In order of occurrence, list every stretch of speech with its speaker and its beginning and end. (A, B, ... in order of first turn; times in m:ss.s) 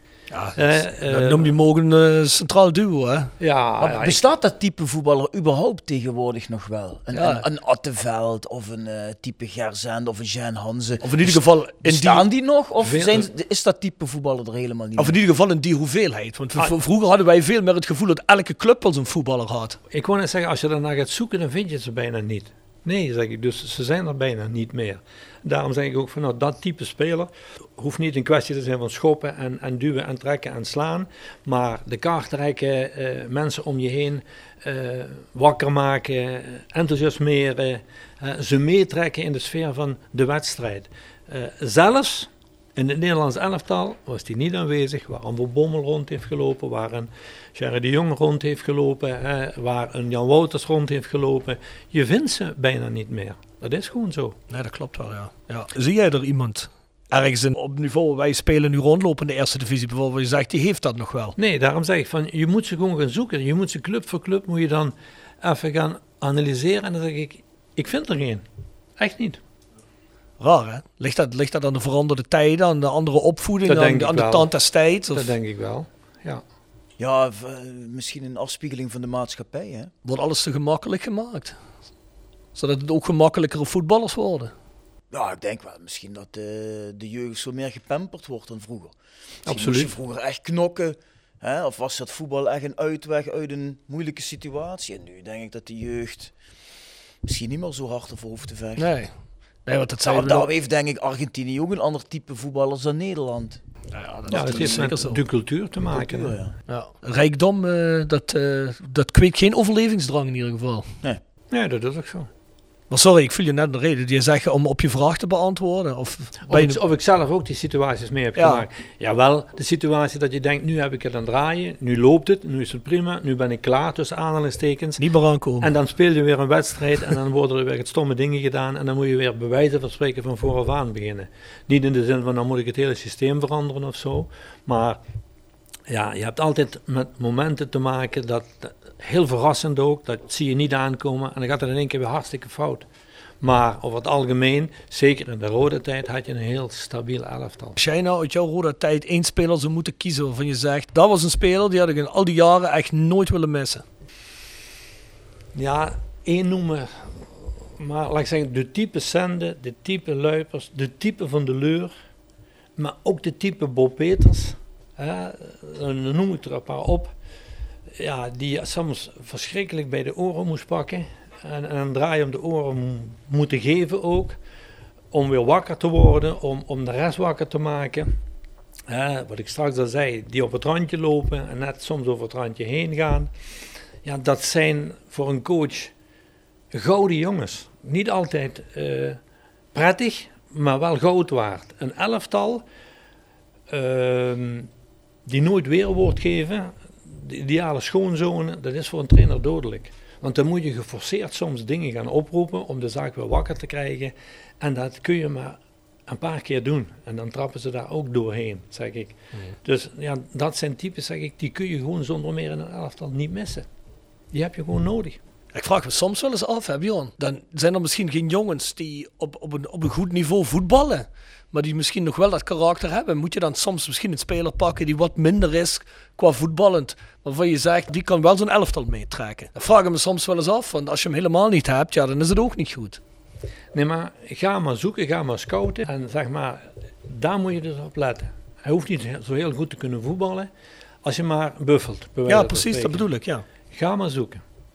0:00.3-0:03.3 A
0:00.6-0:01.5 B
0:03.4-0:04.2 B
0:03.8-0:15.2 C
0:07.2-0:07.4 A
0:11.0-0:12.2 A
0:12.8-0:13.3 B
0:15.0-0:19.8 A
0:19.9-0:54.4 B
0:54.5-1:01.4 A
1:01.4-1:08.4 B
1:09.0-1:09.4 B
1:10.4-1:15.3 A
1:13.7-1:14.5 B
1:15.1-1:16.4 B
1:17.0-1:19.9 C
1:20.0-1:21.6 A
1:22.6-1:24.5 A
1:25.1-1:29.0 C
1:29.5-1:36.3 C
1:29.5-1:29.9 B
1:37.2-1:38.9 C
1:38.8-1:39.1 A
1:39.6-1:40.5 A
1:40.0-1:43.6 C
1:43.9-1:45.2 A
1:44.3-1:45.0 C
1:44.3-1:46.3 B
1:45.9-1:46.6 C
1:46.7-1:50.9 A
1:51.5-1:52.3 B
1:52.9-1:56.8 A
1:56.5-2:05.0 B
1:58.4-1:58.6 A
2:05.0-2:05.7 A
2:05.6-2:15.0 B
2:15.9-2:22.9 B
2:23.4-2:27.8 B
2:27.8-2:33.8 A
2:35.5-2:41.9 B
2:42.8-2:47.1 B
2:47.9-2:54.4 B
2:55.1-2:58.1 B
2:58.9-3:03.3 B
3:04.0-3:05.9 B
3:06.7-3:09.2 B
3:09.7-3:12.6 B
3:13.7-3:14.7 B
3:15.3-3:33.7 B
3:34.3-3:35.2 B
3:35.5-3:53.0 A
3:53.7-4:00.5 B
4:01.0-4:03.1 B
4:02.3-4:03.4 A
4:03.7-4:04.4 B